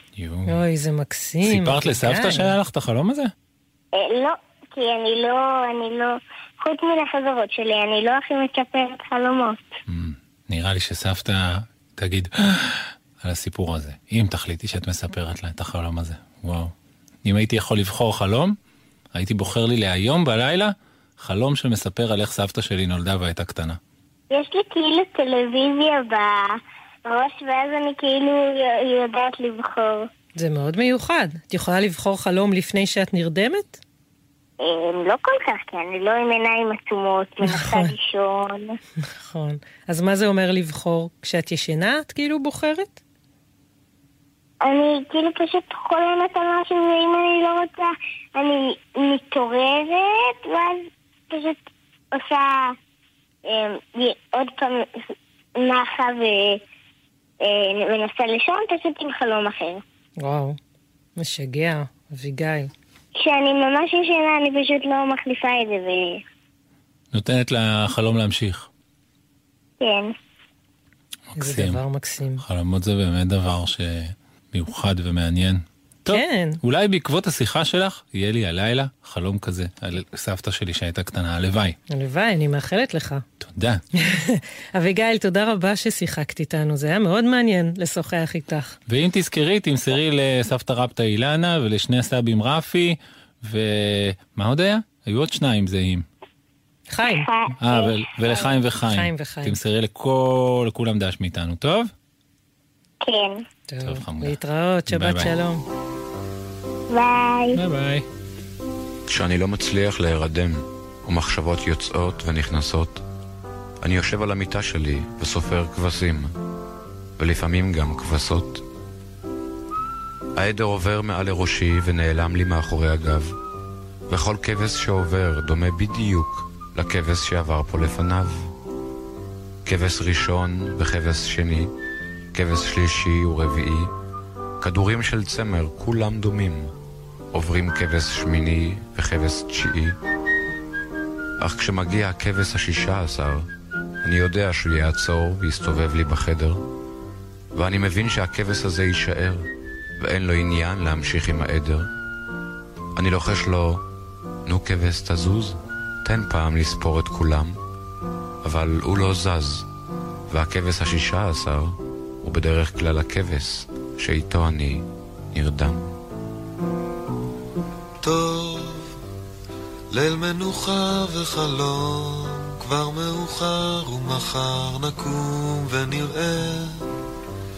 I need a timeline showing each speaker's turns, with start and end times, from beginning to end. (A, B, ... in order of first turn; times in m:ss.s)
0:00.2-0:00.6 A
0:00.5-0:02.5 B
0:01.4-0:03.3 A
0:04.0-0:09.7 C
0:09.9-0:16.7 A
0:17.2-0:18.6 A
0:19.1-0:23.8 A
0:24.3-0:30.1 C
0:30.4-0:33.8 B
0:34.6-0:38.8 C
0:37.4-0:37.9 B
0:39.0-0:43.0 B
0:44.6-0:51.6 C
0:52.1-0:52.8 C
0:53.4-0:56.6 C
0:57.4-0:59.8 C
1:00.2-1:00.6 B
1:01.2-1:02.7 B
1:03.2-1:06.2 C
1:07.1-1:08.7 A
1:09.8-1:10.1 C
1:11.4-1:11.8 A
1:11.4-1:12.4 B
1:12.4-1:21.8 A
1:16.1-1:16.6 B
1:21.9-1:23.2 B
1:23.4-1:23.8 A
1:24.0-1:28.7 B
1:28.9-1:36.0 A
1:36.9-1:37.3 B
1:37.1-1:37.9 C
1:37.6-1:41.9 A
1:38.3-1:39.6 B
1:43.0-1:43.4 C
1:43.7-1:45.6 B
1:43.8-1:44.4 A
1:44.9-1:45.4 A
1:46.9-1:47.6 C
1:47.5-1:48.0 A
1:49.1-1:53.0 D
1:53.8-1:56.3 D
1:57.2-1:58.6 D
2:00.4-2:03.4 D
2:04.1-2:08.5 D
2:09.6-2:11.7 D
2:12.3-2:13.9 D
2:14.6-2:16.7 D
2:17.3-2:19.9 D
2:21.4-2:23.5 D
2:24.0-2:26.6 D
2:27.5-2:29.5 D
2:30.0-2:31.9 D
2:33.0-2:33.8 D
2:34.4-2:37.6 D
2:38.4-2:39.7 D
2:40.3-2:45.9 D
2:48.0-2:48.9 E
2:49.9-2:56.8 E